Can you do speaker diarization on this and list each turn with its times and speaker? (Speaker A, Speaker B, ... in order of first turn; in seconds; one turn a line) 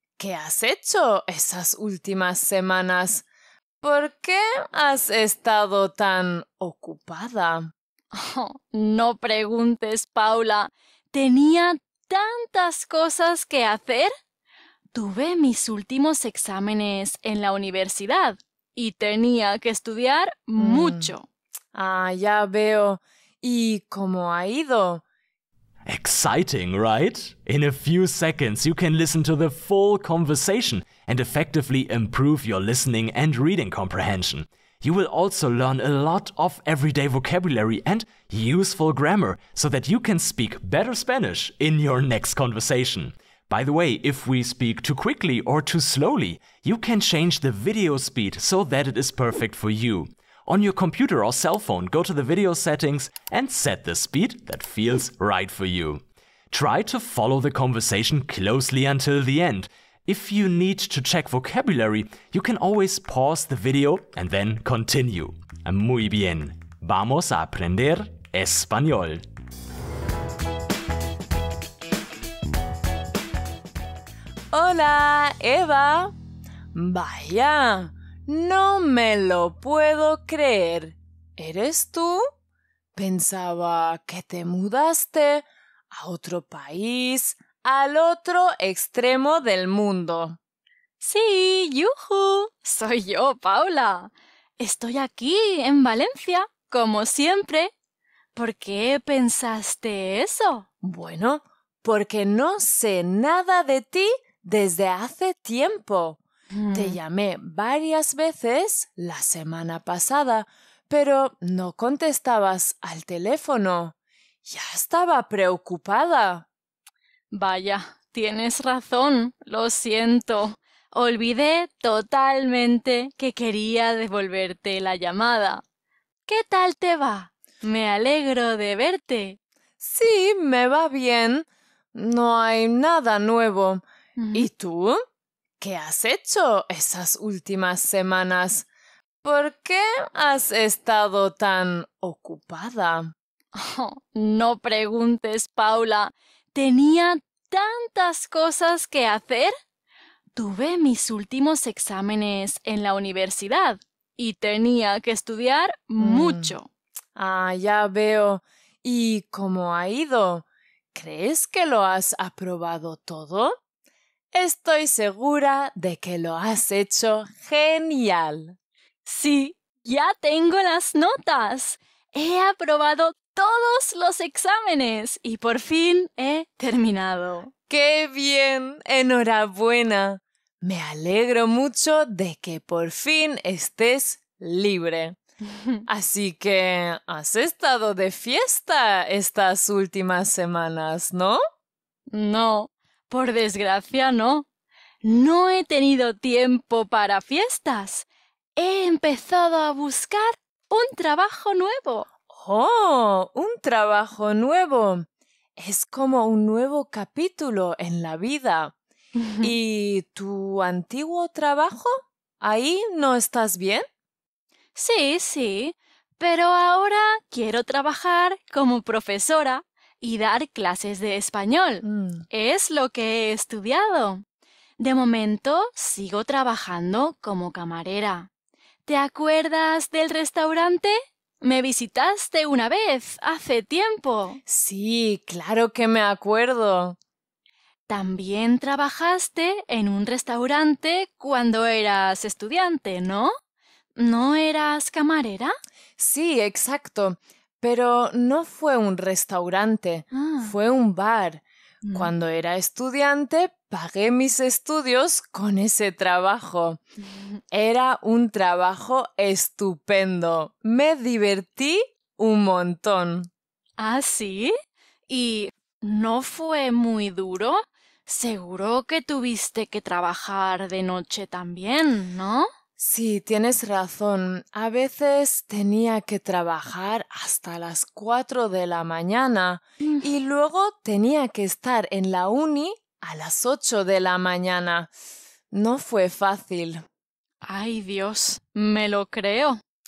Speaker A: 0.2-3.2
Speaker A: 3.8-7.7
Speaker B: 8.1-14.1
Speaker B: 14.9-21.2
Speaker A: 20.6-21.1
Speaker A: 21.7-25.0
Speaker C: 25.9-69.2
Speaker A: 74.5-76.1
Speaker A: 76.7-82.2
Speaker A: 82.9-90.4
Speaker B: 91.0-97.7
Speaker B: 98.3-100.7
Speaker A: 100.8-106.2
Speaker B: 106.5-107.0
Speaker A: 106.7-116.5
Speaker B: 117.3-125.6
Speaker B: 126.3-129.4
Speaker A: 129.8-133.8
Speaker B: 134.2-134.5
Speaker A: 134.3-135.0
Speaker A: 135.6-138.7
Speaker A: 139.2-143.1
Speaker B: 143.5-149.5
Speaker B: 150.3-156.7
Speaker A: 156.0-156.6
Speaker A: 157.2-163.6
Speaker A: 164.3-168.6
Speaker B: 169.1-177.5
Speaker A: 177.7-185.2
Speaker A: 185.9-191.4
Speaker B: 192.1-194.4
Speaker B: 195.0-198.1
Speaker B: 198.6-202.1
Speaker A: 202.3-205.0
Speaker A: 205.6-208.7
Speaker B: 209.2-209.5
Speaker A: 209.4-213.8
Speaker B: 214.8-224.2
Speaker A: 221.8-222.2
Speaker B: 224.8-228.3
Speaker B: 228.9-234.4
Speaker A: 234.5-237.0
Speaker B: 237.9-243.3
Speaker B: 244.0-245.5
Speaker A: 246.0-256.8
Speaker B: 250.1-250.5
Speaker B: 251.8-252.1
Speaker A: 257.5-263.3
Speaker B: 263.8-264.5
Speaker B: 265.1-272.5
Speaker A: 272.8-284.9
Speaker A: 285.5-286.8
Speaker B: 287.4-289.6